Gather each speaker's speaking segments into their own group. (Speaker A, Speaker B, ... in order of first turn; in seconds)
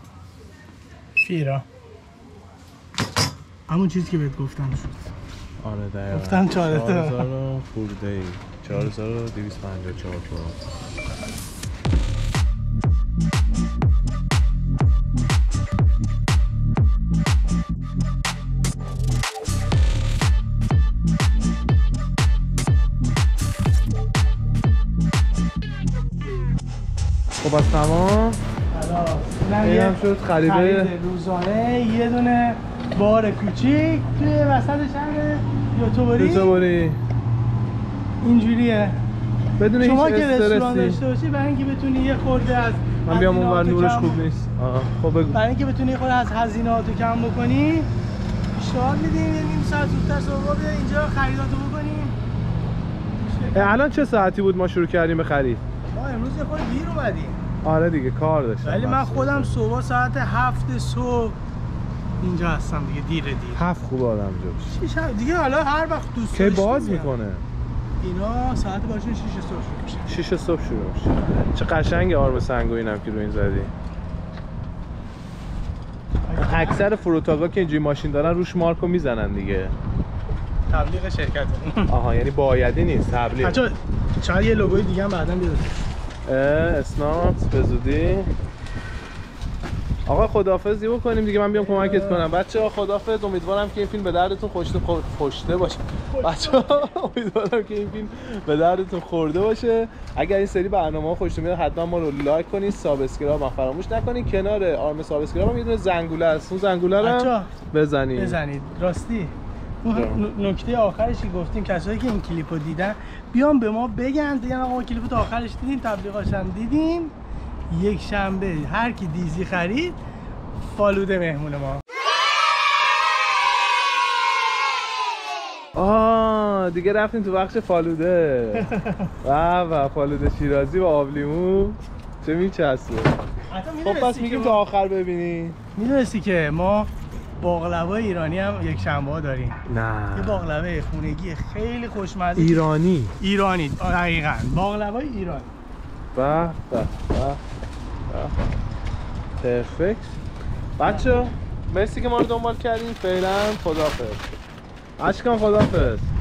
Speaker A: 1.2-1.7, 3.7-5.1, 6.1-7.2, 28.7-36.6, 38.2-39.0, 39.8-44.3, 45.3-47.9, 48.6-52.2, 53.2-53.9, 55.9-57.4, 58.6-61.4, 62.2-63.6, 64.7-67.1, 68.0-70.1, 76.2-76.9, 80.7-81.9, 83.4-85.7, 91.6-92.3, 96.1-96.9, 107.0-107.5, 108.2-117.1, 117.7-120.0, 120.6-121.8, 128.6-129.1, 133.5-134.6, 135.8-139.6, 140.1-142.7, 143.2-145.5, 150.8-151.1
Speaker B: 5.6-10.6, 27.4-28.4, 29.6-30.9, 36.2-37.0, 39.6-41.0, 43.1-45.4, 53.5-55.6, 57.6-59.7, 63.5-64.8, 66.3-67.5, 70.1-73.7, 76.3-79.8, 81.9-83.6, 86.2-88.3, 90.0-108.4, 109.9-110.3, 125.7-128.7, 129.2-133.2, 133.8-135.6, 139.7-140.5, 142.4-143.2, 146.1-147.4, 148.1-148.4, 149.4-150.2, 150.8-154.3, 155.0-156.1